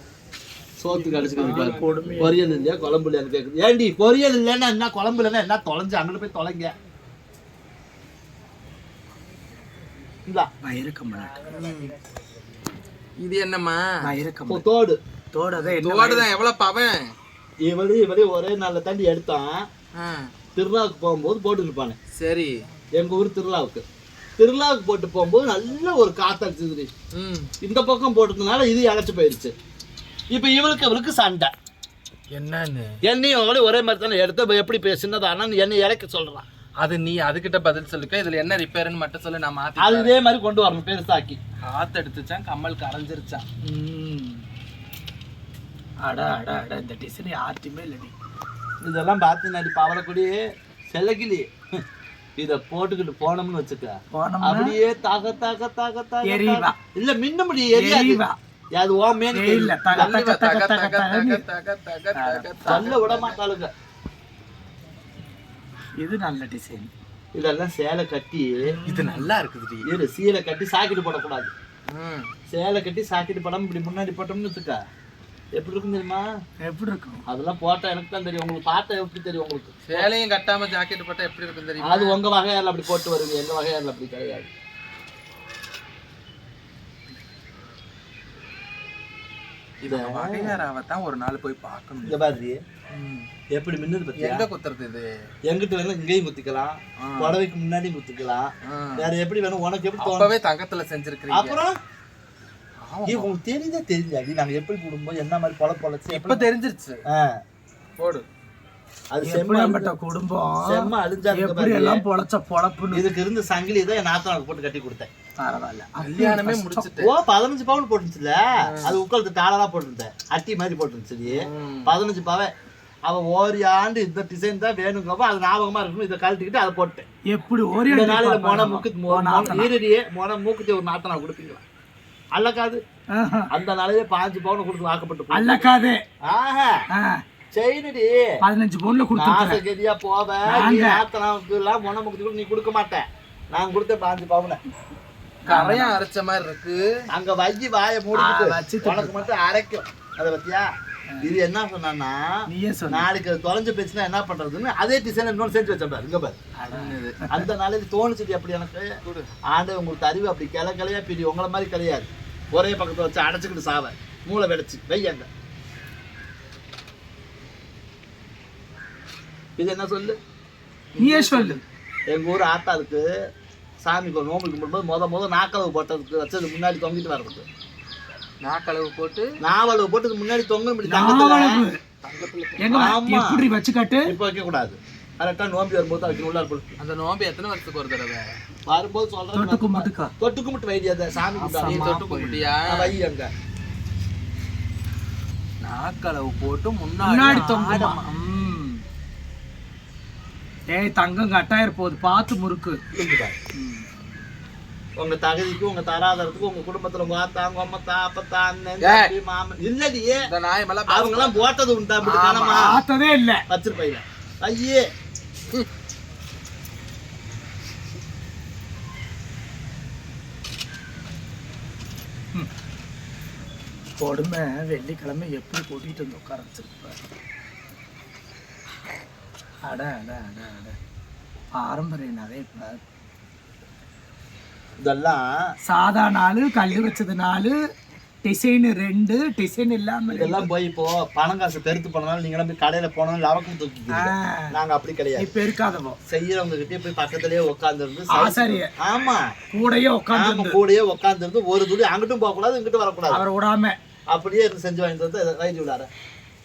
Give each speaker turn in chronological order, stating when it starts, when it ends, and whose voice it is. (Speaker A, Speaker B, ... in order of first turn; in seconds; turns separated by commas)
Speaker A: 0.8-6.7, Speaker B: 1.0-2.4, Speaker C: 1.3-2.2, Speaker B: 10.6-11.4, Speaker C: 11.5-11.9, Speaker C: 13.2-13.9, Speaker B: 14.0-14.6, Speaker A: 14.5-15.0, Speaker B: 15.3-16.2, Speaker C: 15.6-17.0, Speaker A: 17.6-19.7, Speaker C: 20.0-20.3, Speaker A: 20.6-22.0, Speaker C: 22.1-22.5, Speaker A: 22.9-23.8, Speaker A: 24.4-26.9, Speaker C: 27.1-27.5, Speaker A: 27.6-29.5, Speaker A: 30.3-31.5, Speaker C: 32.3-32.9, Speaker A: 33.0-36.5, Speaker C: 36.8-40.1, Speaker A: 39.8-41.4, Speaker C: 41.7-43.4, Speaker B: 43.6-44.4, Speaker B: 46.0-48.1, Speaker A: 48.8-51.8, Speaker A: 52.4-58.2, Speaker B: 54.1-54.8, Speaker B: 56.2-56.8, Speaker B: 57.7-58.4, Speaker A: 58.7-60.1, Speaker B: 59.3-61.4, Speaker C: 59.9-63.4, Speaker B: 62.1-62.9, Speaker A: 62.6-63.7, Speaker B: 66.0-66.9, Speaker A: 67.3-68.7, Speaker B: 68.7-69.3, Speaker C: 68.9-69.8, Speaker A: 69.8-71.5, Speaker C: 71.9-72.3, Speaker A: 72.5-74.8, Speaker A: 75.5-76.3, Speaker B: 76.6-77.2, Speaker A: 77.3-80.1, Speaker C: 79.9-82.2, Speaker A: 81.8-84.5, Speaker C: 89.8-92.2, Speaker A: 89.9-90.6, Speaker A: 92.0-92.6, Speaker C: 92.9-93.3, Speaker A: 93.5-94.5, Speaker C: 94.2-95.0, Speaker A: 95.5-100.3, Speaker C: 97.0-97.4, Speaker C: 98.7-99.0, Speaker C: 100.0-101.6, Speaker A: 101.3-101.8, Speaker C: 102.9-103.3, Speaker A: 103.0-106.5, Speaker C: 106.1-107.0, Speaker A: 107.1-107.4, Speaker C: 108.0-108.2, Speaker A: 109.1-109.9, Speaker B: 109.2-113.0, Speaker A: 110.6-112.0, Speaker A: 112.9-115.1, Speaker B: 115.4-116.9, Speaker C: 116.0-117.1, Speaker A: 117.0-122.5, Speaker C: 121.3-121.9, Speaker A: 123.0-127.0, Speaker B: 127.3-129.7, Speaker A: 127.9-131.6, Speaker A: 132.3-132.8, Speaker B: 133.1-133.5, Speaker A: 133.5-135.7, Speaker B: 135.3-136.0, Speaker A: 136.2-136.8, Speaker B: 136.9-137.2, Speaker A: 137.5-138.3, Speaker B: 138.4-139.6, Speaker A: 139.2-144.6, Speaker B: 140.4-141.0, Speaker B: 145.4-146.0, Speaker C: 145.5-146.8, Speaker A: 147.1-150.7, Speaker B: 148.1-149.3, Speaker A: 151.2-156.4, Speaker B: 152.5-153.1, Speaker B: 156.6-157.5, Speaker C: 156.7-157.2, Speaker A: 157.3-159.0, Speaker A: 159.5-165.3, Speaker A: 169.6-170.2, Speaker A: 170.9-173.1, Speaker B: 170.9-171.6, Speaker A: 173.8-177.4, Speaker C: 178.4-179.3, Speaker A: 179.4-181.6, Speaker B: 180.9-181.8, Speaker C: 182.0-182.9, Speaker B: 182.6-184.1, Speaker A: 182.7-183.4, Speaker A: 184.1-186.7, Speaker C: 186.8-188.3, Speaker A: 188.7-193.3, Speaker B: 189.3-190.1, Speaker B: 191.4-192.0, Speaker C: 191.4-192.9, Speaker C: 195.6-198.1, Speaker B: 197.0-198.8, Speaker B: 200.7-202.8, Speaker A: 202.9-203.3, Speaker B: 203.5-203.8, Speaker A: 205.0-210.3, Speaker C: 208.8-209.1, Speaker C: 210.2-211.4, Speaker A: 210.9-212.7, Speaker C: 212.0-212.7, Speaker B: 212.5-213.4, Speaker A: 213.5-214.9, Speaker B: 224.0-227.0, Speaker B: 229.6-230.8, Speaker B: 231.6-232.8, Speaker A: 234.8-235.5, Speaker B: 235.7-237.6, Speaker B: 238.2-240.5, Speaker A: 240.1-245.3, Speaker B: 243.9-244.5, Speaker B: 245.2-246.0, Speaker A: 246.1-249.3, Speaker B: 248.1-248.7, Speaker B: 249.5-250.6, Speaker A: 250.1-253.2, Speaker B: 253.1-253.8, Speaker A: 254.1-255.9